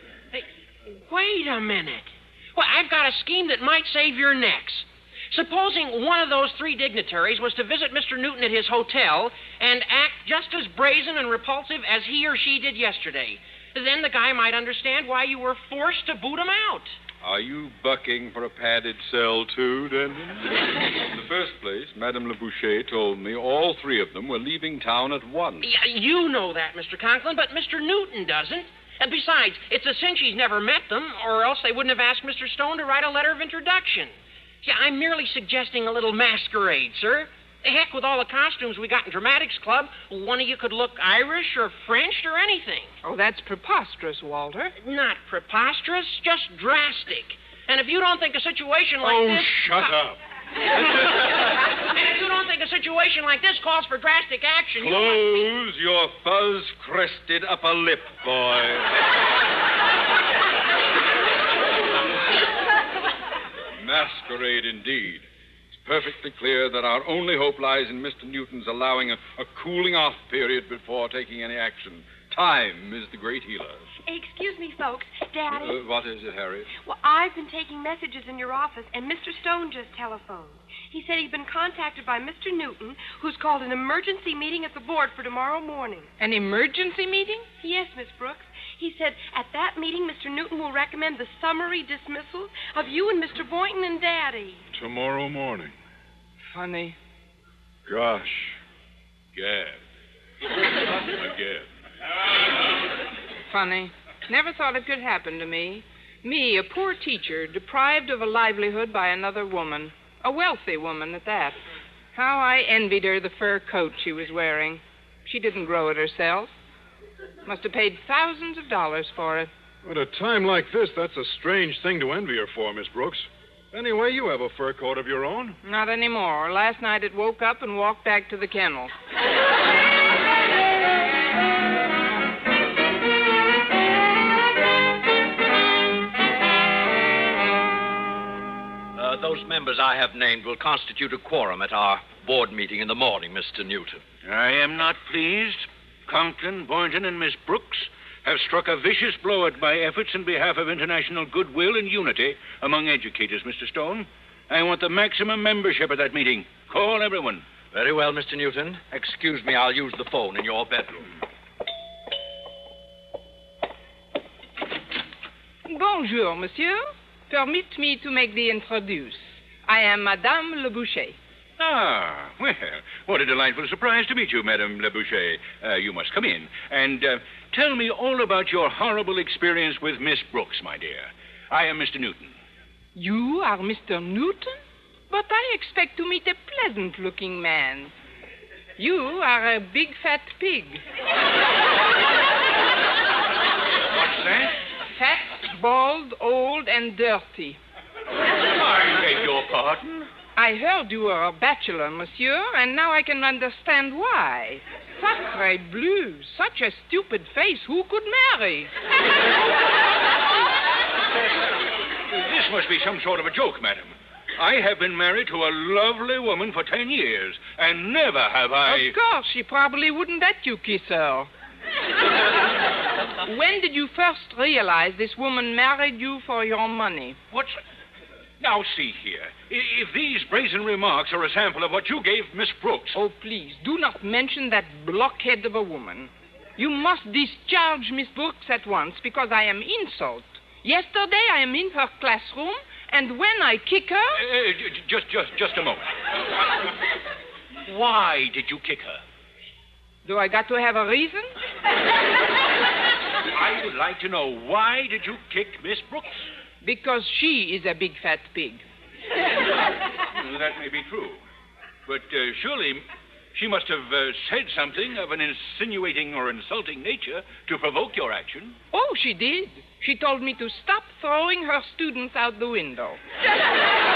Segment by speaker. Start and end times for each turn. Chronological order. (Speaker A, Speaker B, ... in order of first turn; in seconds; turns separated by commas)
Speaker A: 0.3-16.9, Speaker B: 17.2-25.7, Speaker A: 25.6-34.1, Speaker A: 34.6-42.9, Speaker C: 43.0-44.7, Speaker A: 44.8-49.9, Speaker B: 49.1-50.0, Speaker D: 49.1-50.0, Speaker A: 51.9-55.4, Speaker B: 54.8-58.9, Speaker B: 63.8-65.3, Speaker B: 65.8-73.9, Speaker E: 74.0-75.8, Speaker B: 75.5-76.7, Speaker E: 76.8-86.1, Speaker C: 86.2-87.5, Speaker E: 87.6-94.6, Speaker D: 94.7-95.7, Speaker C: 96.5-97.0, Speaker B: 97.9-98.5, Speaker B: 99.3-99.8, Speaker B: 101.1-101.7, Speaker C: 103.5-111.6, Speaker C: 112.1-116.5, Speaker C: 117.5-119.5, Speaker D: 119.8-125.6, Speaker C: 125.6-128.9, Speaker F: 138.9-144.0, Speaker G: 144.2-157.4, Speaker F: 157.7-161.1, Speaker C: 165.7-171.2, Speaker G: 171.6-182.3, Speaker C: 182.9-187.9, Speaker C: 188.8-190.8, Speaker G: 193.9-194.6, Speaker C: 194.8-197.6, Speaker G: 198.5-200.1, Speaker C: 200.3-208.7, Speaker G: 212.1-218.9, Speaker C: 218.6-221.3, Speaker C: 223.2-227.2, Speaker G: 227.3-227.6, Speaker G: 228.4-233.0, Speaker C: 232.9-244.2, Speaker G: 244.2-245.9, Speaker G: 247.7-249.0, Speaker C: 250.0-251.3, Speaker G: 253.3-256.2, Speaker C: 256.6-258.6, Speaker G: 260.1-261.2, Speaker G: 261.9-268.6, Speaker C: 268.7-273.0